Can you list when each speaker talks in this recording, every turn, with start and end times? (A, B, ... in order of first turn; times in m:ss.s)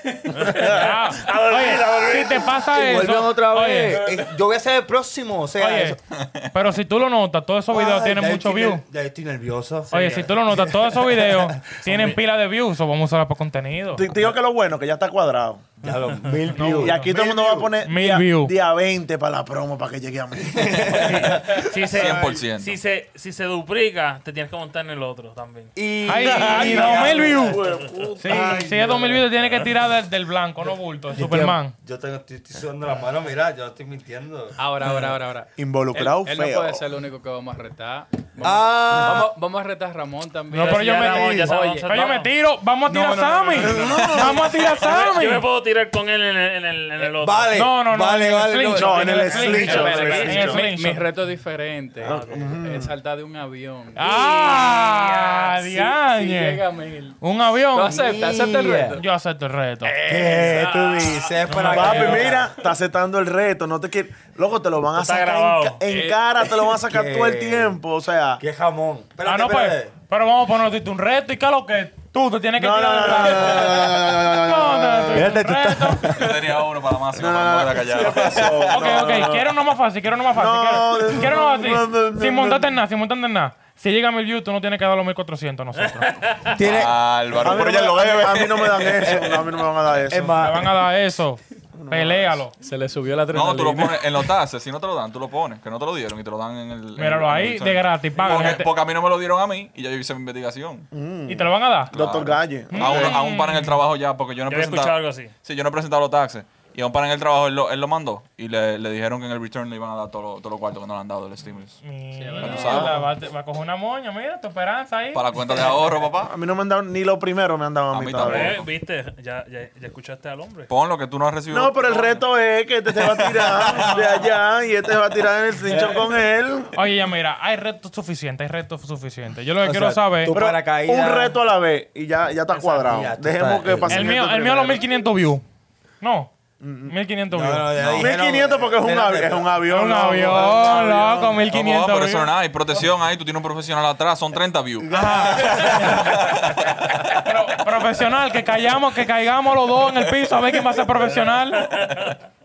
0:00.3-0:02.6 A
0:00.6-0:04.1 B
0:02.7-0:06.0 C
0:05.6-0:06.0 B
0:06.2-0:06.5 D
0:06.5-0:08.8 B
0:07.7-0:11.6 C
0:09.9-0:10.3 A
0:09.9-0:14.1 B
0:11.8-0:12.2 A
0:14.0-0:15.7 E
0:15.8-0:17.7 C
0:16.5-0:17.1 B
0:16.6-0:21.3 E
0:17.8-0:18.5 B
0:20.4-0:22.3 C
0:21.1-0:25.7 A
0:21.8-0:22.8 D
0:25.8-0:29.4 C
0:26.1-0:27.6 B
0:26.4-0:29.0 E
0:28.2-0:31.8 B
0:31.1-0:34.6 C
0:34.6-0:42.1 F
0:35.6-0:36.8 E
0:38.4-0:39.3 C
0:40.5-0:45.4 B
0:40.5-0:42.3 A
0:43.3-0:44.6 E
0:44.7-0:47.5 A
0:47.0-0:50.2 C
0:47.5-0:51.1 B
0:48.7-0:50.7 E
0:49.4-0:57.2 F
0:52.0-0:52.9 E
0:52.0-0:52.5 A
0:54.0-0:56.6 B
0:57.2-0:58.1 B
0:57.8-0:59.0 F
0:57.9-0:59.0 C
0:59.0-1:00.0 B
0:59.8-1:01.5 F
1:00.0-1:02.5 C
1:01.5-1:02.2 B
1:01.7-1:08.4 E
1:04.9-1:05.8 A
1:05.9-1:06.2 F
1:06.9-1:07.8 C
1:08.4-1:09.9 C
1:09.2-1:16.2 B
1:12.6-1:15.3 E
1:15.1-1:16.3 C
1:16.1-1:19.2 D
1:17.1-1:19.5 E
1:18.7-1:26.1 B
1:20.3-1:22.8 E
1:25.8-1:26.6 A
1:26.5-1:27.0 C
1:26.6-1:29.6 D
1:27.4-1:30.4 E
1:30.1-1:30.7 C
1:30.4-1:32.6 B
1:31.8-1:32.4 E
1:32.6-1:34.2 F
1:33.3-1:40.9 D
1:37.0-1:38.7 B
1:40.9-1:43.2 E
1:41.3-1:42.0 B
1:41.9-1:51.8 D
1:42.7-1:43.8 B
1:44.5-1:45.3 A
1:51.8-1:55.2 B
1:52.2-1:52.9 F
1:52.4-1:52.9 D
1:52.5-1:53.0 E
1:55.1-1:56.3 D
1:56.2-1:58.6 E
1:57.9-1:58.7 D
1:58.2-2:00.7 A
2:00.7-2:02.2 D
2:01.5-2:06.8 E
2:03.0-2:04.2 D
2:05.7-2:06.0 C
2:06.7-2:10.4 B
2:09.6-2:11.4 C
2:10.3-2:14.9 E
2:12.5-2:13.0 A
2:12.8-2:14.1 C
2:13.9-2:15.4 B
2:16.0-2:16.3 B
2:16.6-2:17.0 E
2:16.9-2:17.7 B
2:17.3-2:19.5 C
2:17.8-2:18.1 D
2:18.0-2:21.4 E
2:19.6-2:22.3 B
2:21.5-2:27.2 D
2:24.9-2:26.2 B
2:24.9-2:26.0 C
2:27.1-2:31.8 B
2:31.4-2:32.2 A